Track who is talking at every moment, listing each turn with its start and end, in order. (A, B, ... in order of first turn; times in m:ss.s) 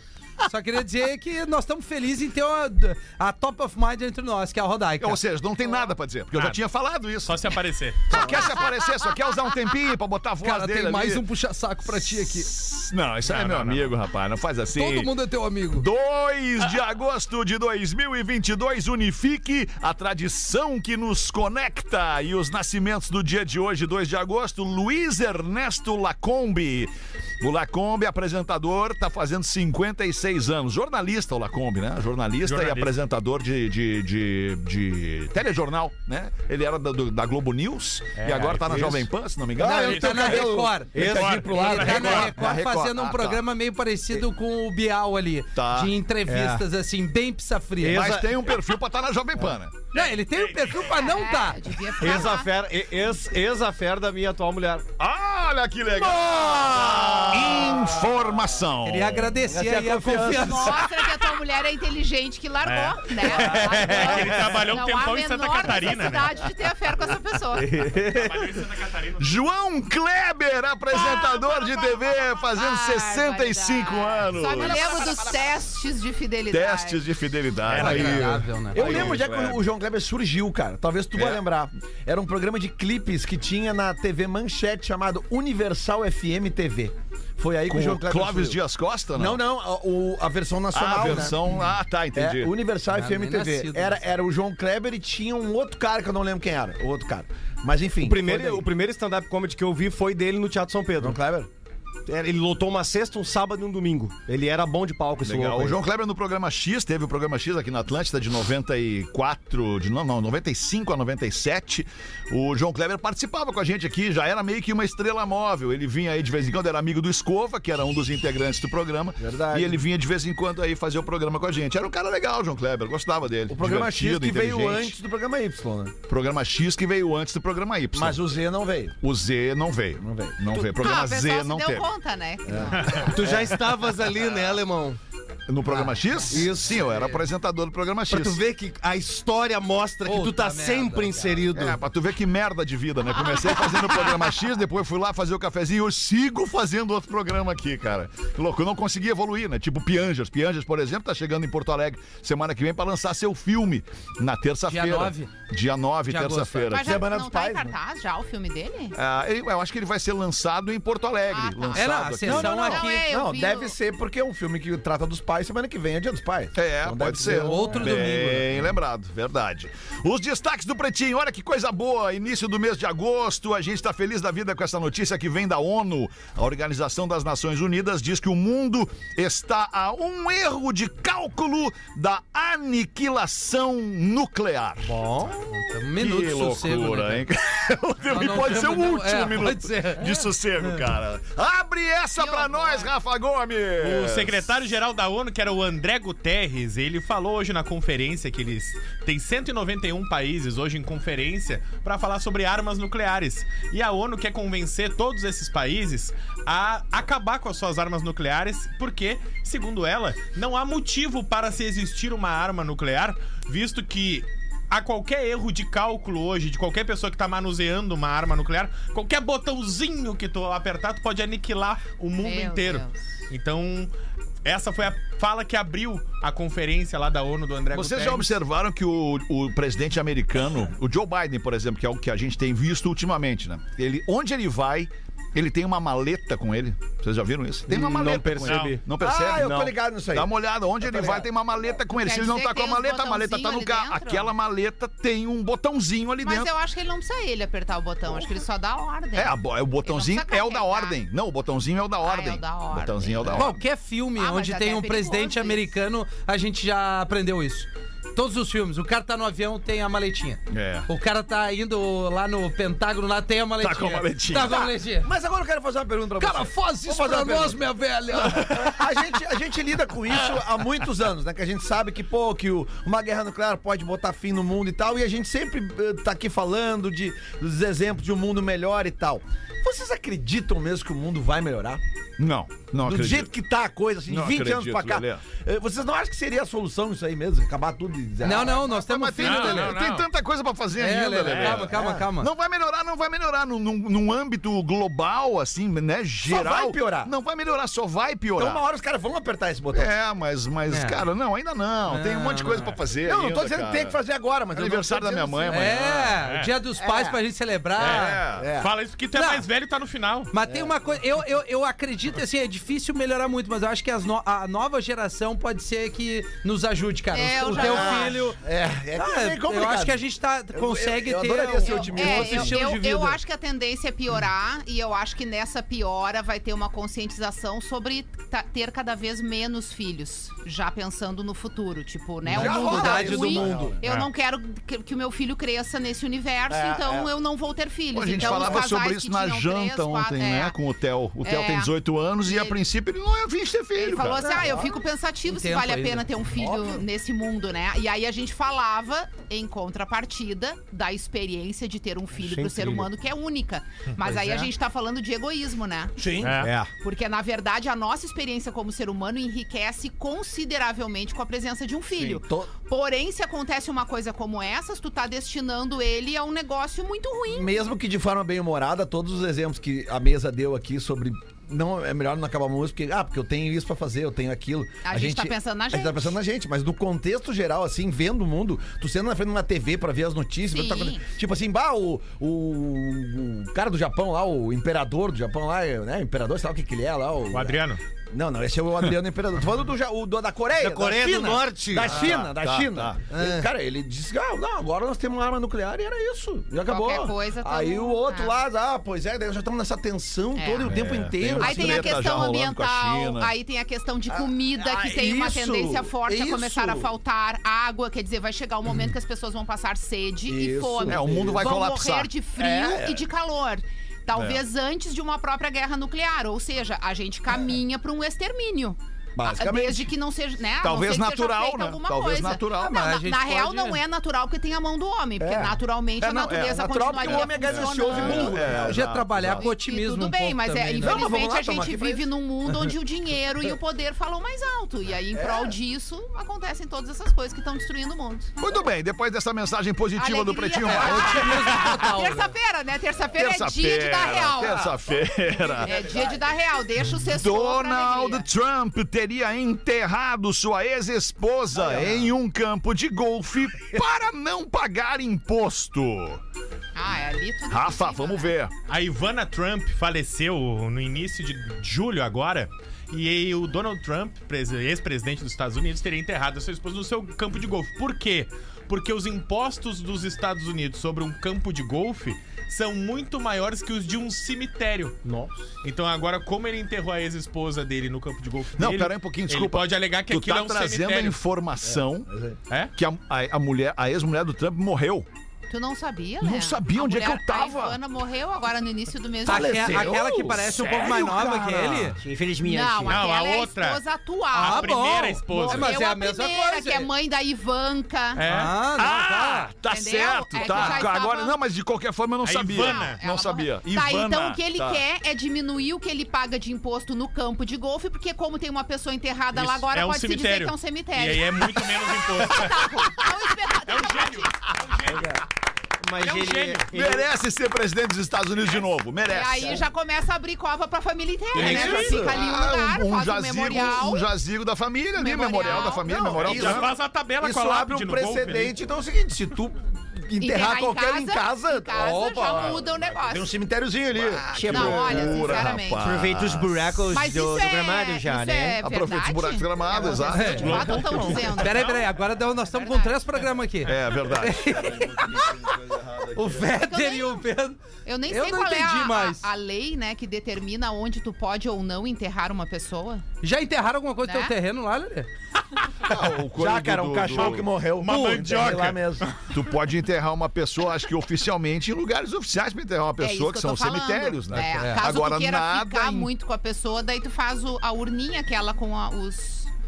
0:00.4-0:05.2 A
0:05.0-0:07.5 B
0:06.3-0:06.6 C
0:07.2-0:08.2 C
0:08.1-0:11.3 B
0:10.4-0:12.5 A
0:11.8-0:15.1 B
0:13.3-0:13.9 C
0:14.7-0:15.9 A
0:15.7-0:40.2 B
0:32.4-0:32.9 C
0:38.2-0:38.8 C
0:38.6-0:39.0 D
0:39.6-0:42.3 E
0:39.6-0:48.0 A
0:39.8-0:42.3 C
0:40.4-0:42.3 D
0:41.8-0:43.4 B
0:45.5-0:45.9 B
0:46.2-0:46.6 D
0:47.8-0:48.4 D
0:47.8-0:49.8 B
0:49.9-0:51.8 A
0:49.9-0:50.9 C
0:51.0-0:52.5 F
0:52.0-0:54.8 D
0:55.0-0:59.4 B
0:56.3-0:57.4 D
0:57.4-0:57.8 E
0:58.8-1:00.8 A
0:59.5-1:01.1 E
1:00.3-1:07.8 F
1:02.6-1:06.5 C
1:07.8-1:09.4 C
1:07.8-1:08.1 E
1:09.2-1:14.9 B
1:10.9-1:17.0 F
1:16.5-1:19.7 B
1:17.6-1:18.1 C
1:17.7-1:19.1 A
1:17.8-1:18.1 E
1:18.7-1:28.6 E
1:21.1-1:21.4 B
1:27.6-1:29.4 B
1:29.1-1:38.6 E
1:30.7-1:32.5 B
1:32.9-1:34.0 A
1:38.0-1:41.2 D
1:41.0-1:41.5 E
1:42.1-1:45.8 D
1:45.2-2:05.0 B
1:59.2-1:59.8 E
2:03.5-2:05.9 E
2:06.1-2:08.2 B
2:07.9-2:09.0 E
2:09.0-2:11.9 B
2:10.0-2:10.6 E
2:10.7-2:13.3 F
2:12.5-2:12.8 E
2:12.7-2:13.1 C
2:13.0-2:15.0 D
2:15.5-2:18.4 B
2:16.3-2:17.2 D
2:18.1-2:21.8 D
2:20.0-2:21.4 A
2:21.5-2:37.0 B
2:23.3-2:24.1 F
2:34.7-2:35.3 A
2:36.1-2:36.8 A
2:36.7-2:39.0 F
2:36.8-2:37.8 E
2:38.9-2:42.8 B
2:41.3-2:43.7 F
2:41.7-2:43.1 A
2:43.1-2:48.1 E
2:46.5-3:05.0 B
2:47.3-2:48.5 A
3:04.8-3:05.4 D
3:05.4-3:07.2 A
3:06.0-3:14.6 B
3:08.1-3:10.2 A
3:12.2-3:12.9 F
3:13.8-3:43.9 C
3:42.2-3:43.0 F
3:44.4-3:48.3 C
3:47.7-4:06.5 B
3:57.7-3:59.7 D
3:58.4-3:58.8 C
3:59.0-4:01.2 E
4:01.9-4:04.3 F
4:06.2-4:11.0 F
4:09.1-4:13.6 B
4:12.0-4:13.5 F
4:13.3-4:25.1 A
4:14.2-4:15.7 F
4:20.5-4:20.9 B
4:23.6-4:24.7 B
4:24.5-4:27.6 E
4:26.2-4:28.9 A
4:28.2-4:41.8 E
4:42.2-4:43.3 B
4:42.8-4:48.6 E
4:44.1-4:45.2 B
4:48.2-4:49.8 A
4:48.3-4:58.6 B
4:49.2-4:50.1 C
4:50.8-4:52.3 A
4:51.3-4:51.7 C
4:51.7-4:52.0 E
4:56.2-4:57.1 E
4:58.4-4:59.9 E
4:59.7-5:04.0 B
5:00.7-5:01.0 A
5:01.9-5:02.7 A
5:03.0-5:05.8 E
5:04.5-5:06.2 B
5:05.5-5:08.2 A
5:06.2-5:06.5 C
5:06.8-5:07.2 E
5:07.8-5:08.5 B
5:07.8-5:10.3 C
5:08.4-5:08.7 E
5:09.1-5:09.5 A
5:10.3-5:18.4 A
5:10.4-5:10.7 E
5:17.1-5:18.3 F
5:17.5-5:20.0 E
5:19.0-5:23.2 A
5:20.5-5:22.7 E
5:21.6-5:40.6 F
5:32.2-5:33.8 A
5:32.3-5:33.8 E
5:36.5-5:37.1 E
5:37.9-5:44.4 B
5:38.2-5:38.6 E
5:41.2-5:41.7 F
5:42.2-5:42.6 F
5:43.7-5:56.0 F
5:44.3-5:44.7 E
5:45.3-5:46.2 A
5:46.4-5:46.6 E
5:52.2-5:52.9 D
5:54.0-5:54.5 A
5:56.0-5:56.4 E
5:56.1-5:56.7 D
5:56.2-5:56.5 C
5:56.8-6:07.6 F
6:01.9-6:02.5 E
6:07.3-6:27.6 E
6:14.8-6:16.2 F
6:20.5-6:21.0 F
6:27.3-6:27.8 C
6:28.1-6:42.1 E
6:30.6-6:32.3 D
6:31.9-6:33.0 B
6:33.1-6:33.5 D
6:36.6-6:38.4 F
6:40.3-6:40.8 F
6:40.6-6:43.3 B
6:41.4-7:08.6 F
6:44.1-6:46.9 E
6:50.3-6:51.6 E
6:50.8-6:53.0 B
6:52.4-6:52.8 E
6:54.1-6:54.4 B
6:59.2-6:59.9 E
7:00.6-7:02.8 B
7:02.6-7:03.8 A
7:05.2-7:05.6 E
7:06.0-7:09.5 B
7:06.4-7:08.8 E
7:08.6-7:11.1 A
7:09.4-7:18.3 F
7:10.8-7:12.1 E
7:15.1-7:15.5 E
7:18.4-7:21.5 B
7:20.0-7:24.8 F
7:20.7-7:22.3 A
7:23.1-7:25.8 B
7:25.6-7:28.2 F
7:25.7-7:26.2 E
7:27.1-7:36.2 B
7:31.6-7:32.1 E
7:36.7-7:38.3 F
7:37.5-7:38.5 B
7:38.7-7:55.0 C
7:55.6-8:01.2 C
7:58.6-8:02.1 B
8:02.1-8:02.4 E
8:02.7-8:05.1 B
8:05.5-8:10.0 F
8:06.2-8:07.8 B
8:09.2-8:12.0 A
8:09.3-8:11.9 E
8:12.0-8:13.1 D
8:12.4-8:14.8 F
8:12.8-8:15.7 C
8:14.4-8:16.9 A
8:15.3-8:18.2 F
8:18.2-8:18.6 C
8:18.2-8:19.5 A
8:18.8-8:24.8 B
8:19.7-8:21.4 F
8:20.4-8:20.8 A
8:22.2-8:23.0 C
8:22.5-8:34.3 F
8:29.3-8:32.9 C
8:33.6-8:35.2 C
8:34.9-8:35.2 D
8:35.8-8:37.1 D
8:36.0-8:36.7 C
8:36.7-8:39.6 B
8:39.1-8:44.1 F
8:41.3-8:42.2 E
8:41.3-8:46.7 B
8:41.4-8:41.8 C
8:45.0-8:46.4 F
8:46.2-8:55.4 E
8:46.2-8:48.6 C
8:50.2-8:53.3 F
8:53.9-8:56.9 B
8:54.3-8:58.6 D
8:54.4-8:55.9 F
8:56.9-9:03.0 F
8:58.6-9:01.2 B
9:00.1-9:00.5 A
9:00.3-9:01.8 C
9:01.3-9:05.5 A
9:03.6-9:06.6 B
9:06.1-9:09.3 A
9:06.5-9:07.3 F
9:07.8-9:13.0 F
9:13.2-9:15.1 A
9:14.0-9:14.3 F
9:15.8-9:17.5 B
9:16.4-9:19.0 E
9:17.8-9:19.3 C
9:19.3-9:26.1 B
9:23.0-9:29.5 F
9:24.3-9:24.8 A